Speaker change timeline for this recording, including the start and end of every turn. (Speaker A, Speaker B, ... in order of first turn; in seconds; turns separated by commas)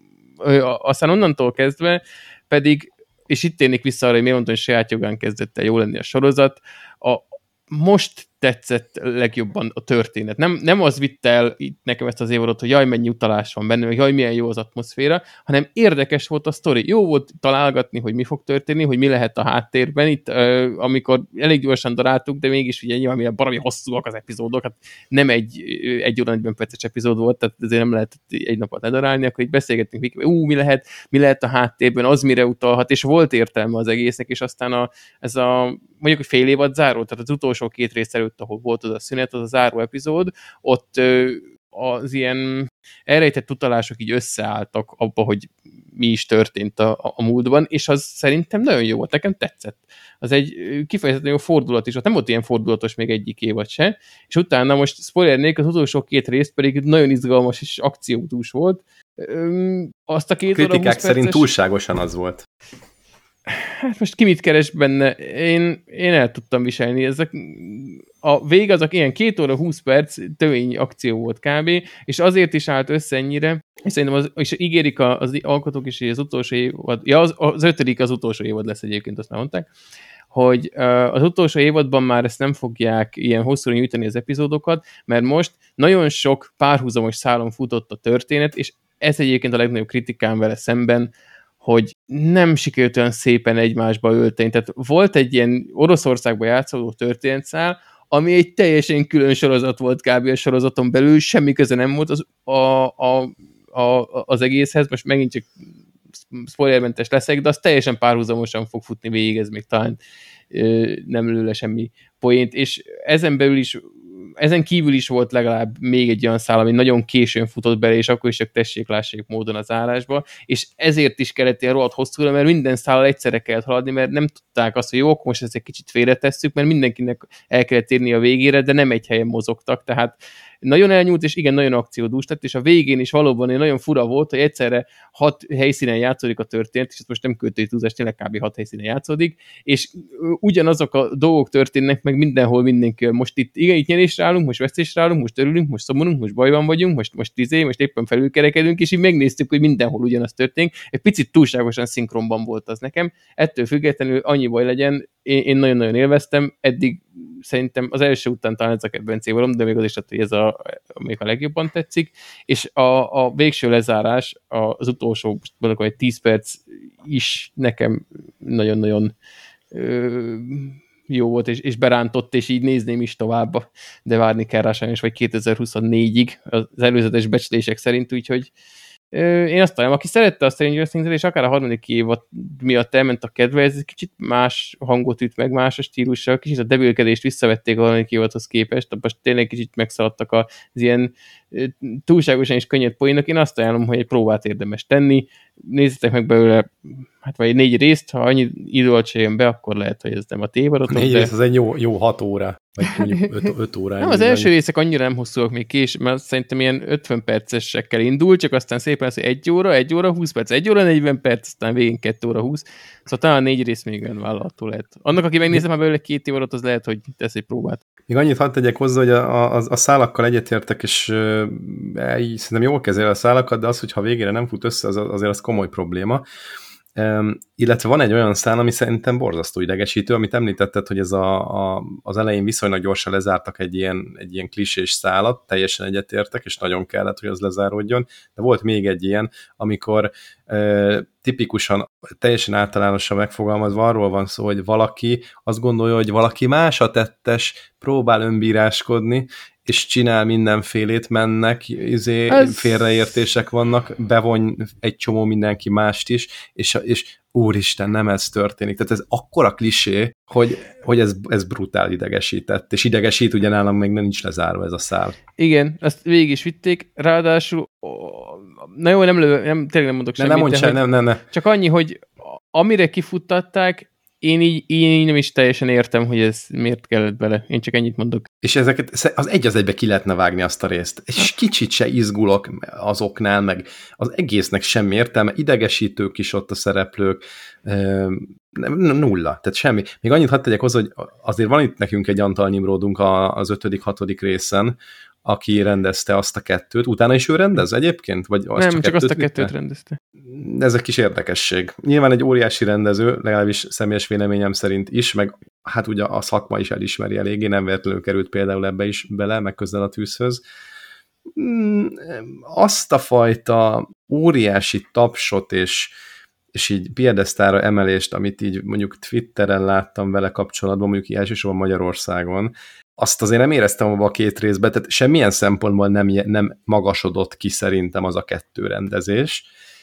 Speaker A: 0.4-61.5, Speaker B: 60.5-62.5, Speaker A: 63.5-79.7, Speaker A: 80.3-91.1, Speaker A: 91.6-105.5, Speaker A: 106.3-110.0, Speaker A: 110.5-169.1, Speaker A: 169.7-178.5, Speaker A: 179.1-201.3, Speaker B: 200.9-204.5, Speaker A: 204.0-217.8, Speaker B: 218.1-226.2, Speaker B: 226.9-265.2, Speaker A: 265.4-270.8, Speaker B: 270.2-271.2, Speaker A: 271.3-278.3, Speaker B: 278.4-299.5, Speaker A: 298.6-300.0, Speaker B: 300.2-310.4, Speaker B: 311.4-315.9, Speaker B: 316.5-329.5